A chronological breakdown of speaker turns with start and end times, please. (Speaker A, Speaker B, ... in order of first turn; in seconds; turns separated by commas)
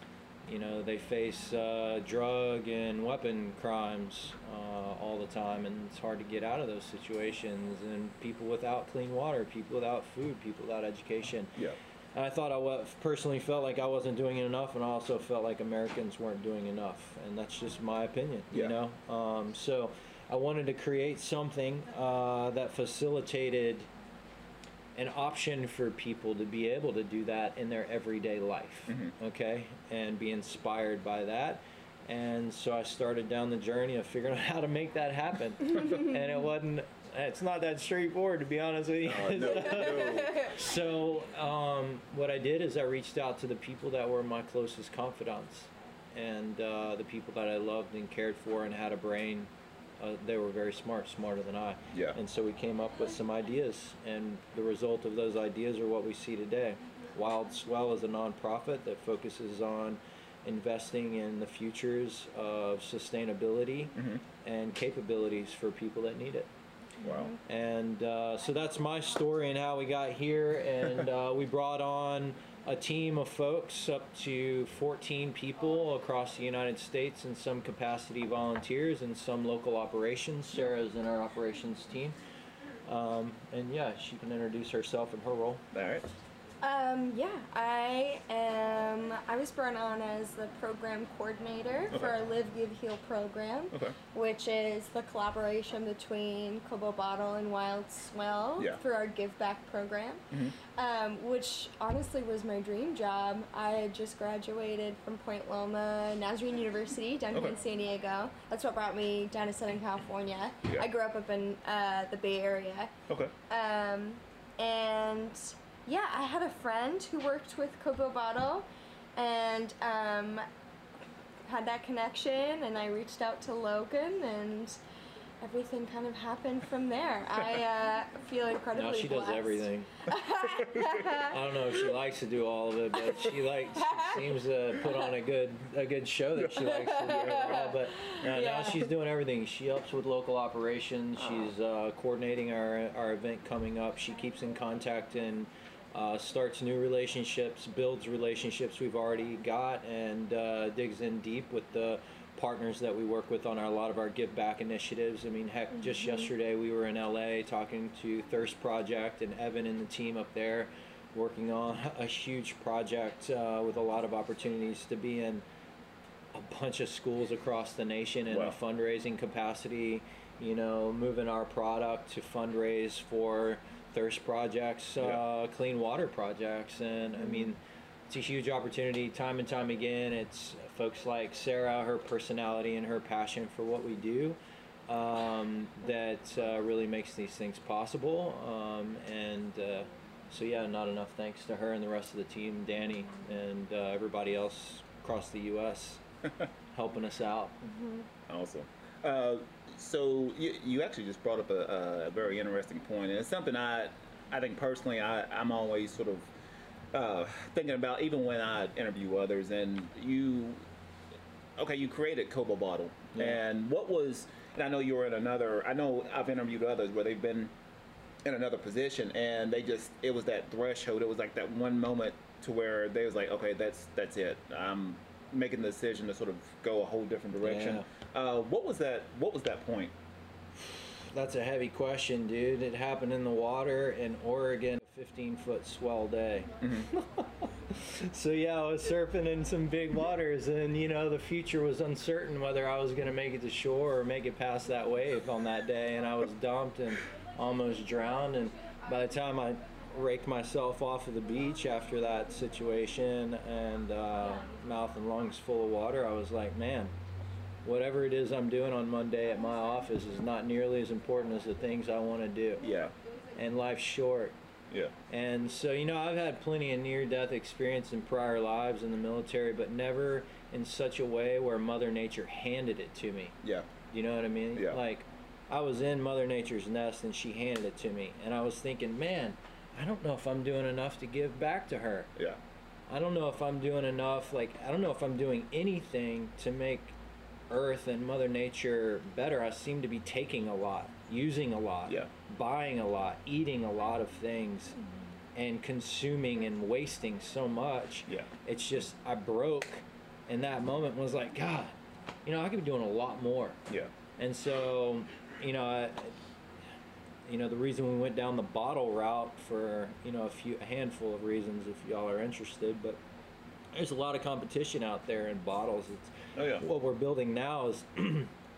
Speaker A: 0.5-11.6, Speaker A: 12.2-23.9, Speaker A: 25.0-66.5, Speaker B: 28.9-29.1, Speaker B: 39.0-40.5, Speaker C: 39.4-40.7, Speaker B: 51.9-52.2, Speaker B: 64.0-64.2, Speaker C: 67.0-67.4, Speaker B: 67.0-67.3, Speaker A: 67.5-82.2, Speaker A: 82.8-85.7, Speaker B: 85.7-86.1, Speaker C: 86.6-112.9, Speaker B: 91.9-92.2, Speaker C: 113.5-120.5, Speaker C: 121.5-124.8, Speaker C: 125.4-131.8, Speaker A: 128.7-129.9, Speaker B: 130.7-131.0, Speaker A: 131.2-165.4, Speaker C: 133.1-135.1, Speaker C: 136.6-138.9, Speaker C: 155.8-156.2, Speaker A: 166.3-184.4, Speaker B: 168.3-168.6, Speaker A: 184.9-196.0, Speaker A: 196.7-197.6, Speaker C: 197.7-198.1, Speaker B: 198.3-206.3, Speaker B: 206.9-210.6, Speaker B: 211.6-217.5, Speaker B: 218.2-229.9, Speaker A: 227.4-227.8, Speaker A: 230.6-256.9, Speaker B: 236.6-236.9, Speaker A: 257.6-262.7, Speaker B: 262.6-262.9, Speaker A: 263.4-264.3, Speaker A: 265.1-273.4, Speaker B: 273.4-273.7, Speaker A: 273.9-282.1, Speaker A: 282.9-286.9, Speaker A: 287.5-294.8, Speaker A: 295.4-303.6, Speaker A: 304.2-306.2, Speaker A: 307.3-313.0, Speaker A: 313.7-318.3, Speaker B: 316.4-316.6